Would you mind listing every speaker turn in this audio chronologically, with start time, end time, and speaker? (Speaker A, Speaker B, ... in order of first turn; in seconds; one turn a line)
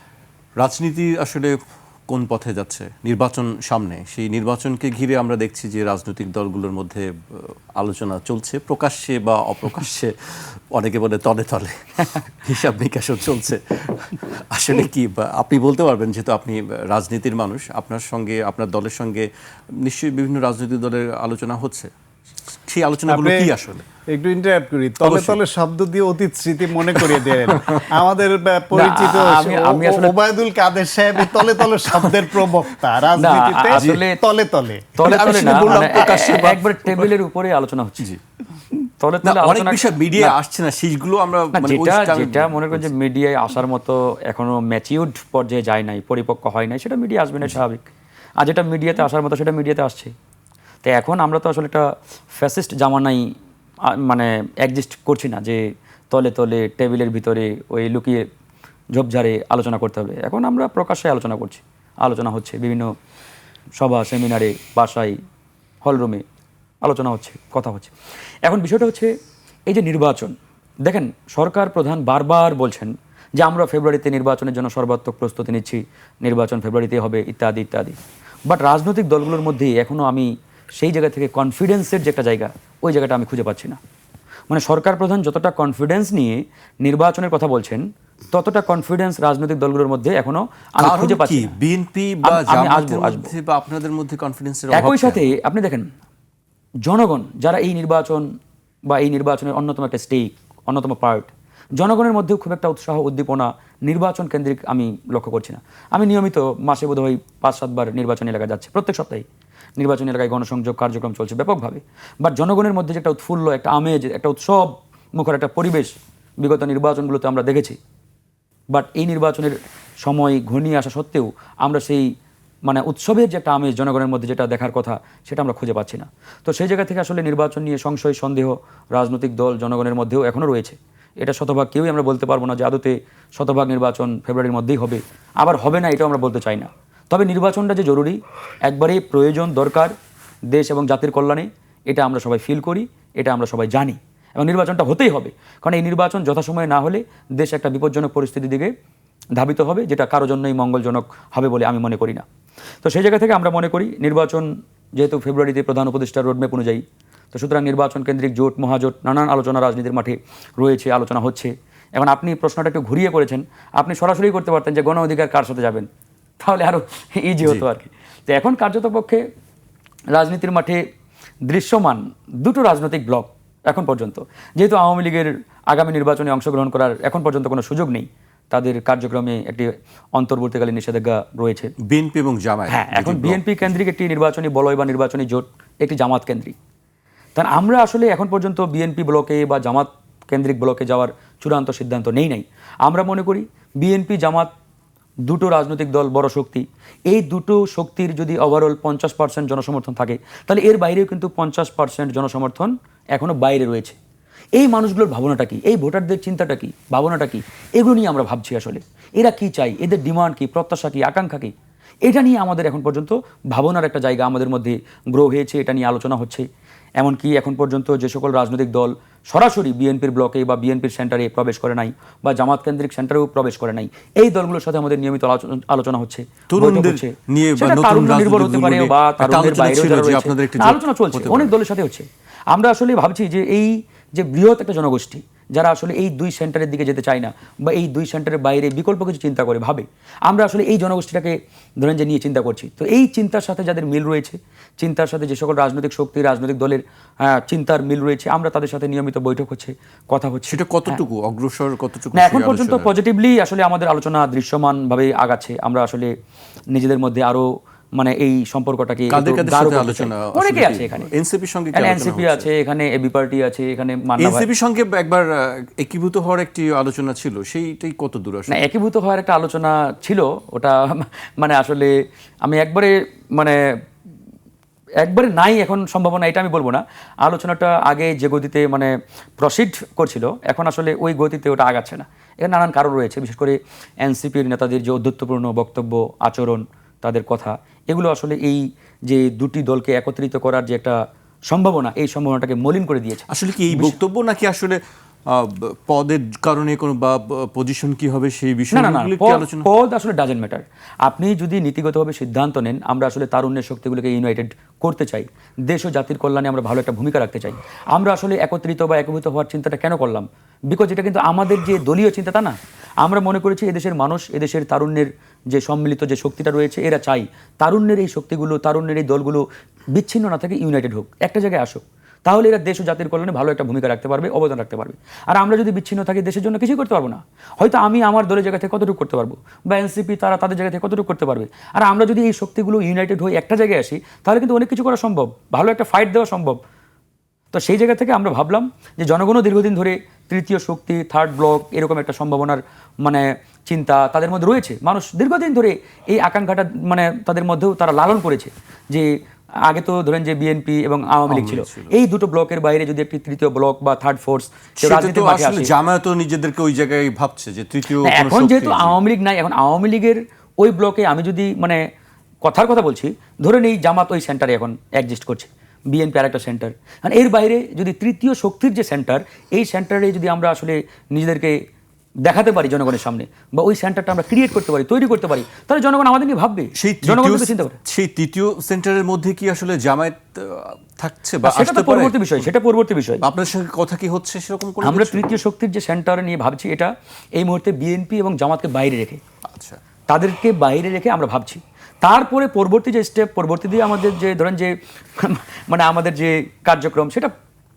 Speaker A: 0.6-1.6
Speaker A: 2.1-21.9
Speaker A: 22.6-23.9
Speaker B: 23.1-23.5
Speaker B: 24.1-36.0
Speaker A: 25.0-25.4
Speaker A: 26.9-27.9
Speaker C: 28.7-30.2
Speaker C: 33.1-34.2
Speaker A: 33.7-34.1
Speaker C: 35.0-38.0
Speaker A: 35.0-37.1
Speaker C: 39.0-40.3
Speaker A: 39.2-42.9
Speaker C: 41.5-47.8
Speaker C: 48.4-50.1
Speaker C: 50.8-53.2
Speaker C: 53.9-58.2
Speaker C: 59.0-62.9
Speaker C: 63.8-65.2
Speaker C: 65.8-66.2
Speaker C: 66.8-67.9
Speaker C: 68.5-69.1
Speaker C: 69.7-83.8
Speaker C: 84.5-91.5
Speaker A: 90.8-95.2
Speaker C: 92.2-93.3
Speaker C: 94.7-95.9
Speaker C: 96.9-98.2
Speaker C: 98.9-109.2
Speaker C: 109.8-117.8
Speaker C: 118.7-122.1
Speaker C: 122.7-139.9
Speaker C: 140.5-148.7
Speaker C: 149.4-152.2
Speaker C: 152.8-165.9
Speaker C: 166.4-169.2
Speaker C: 170.1-170.8
Speaker C: 171.5-181.7
Speaker A: 181.8-183.7
Speaker C: 182.7-186.5
Speaker C: 187.3-194.5
Speaker C: 195.3-203.9
Speaker C: 204.6-211.5
Speaker C: 212.1-216.5
Speaker C: 217.0-251.0
Speaker A: 226.5-231.5
Speaker A: 250.5-252.9
Speaker C: 252.1-256.1
Speaker C: 256.7-261.1
Speaker A: 259.1-262.5
Speaker C: 261.7-264.5
Speaker A: 264.2-268.6
Speaker C: 268.5-271.9
Speaker C: 272.4-273.6
Speaker C: 275.0-291.0
Speaker C: 291.5-294.0
Speaker A: 293.3-299.7
Speaker C: 298.7-319.4
Speaker C: 319.9-336.6
Speaker C: 337.5-349.1
Speaker C: 349.7-355.7
Speaker A: 351.3-351.9
Speaker A: 354.8-359.0
Speaker C: 358.0-361.8
Speaker C: 362.4-371.6
Speaker C: 372.2-377.8
Speaker A: 376.8-382.5
Speaker C: 381.4-383.2
Speaker A: 383.2-385.3
Speaker C: 384.8-389.2
Speaker A: 389.5-389.8
Speaker C: 390.1-397.3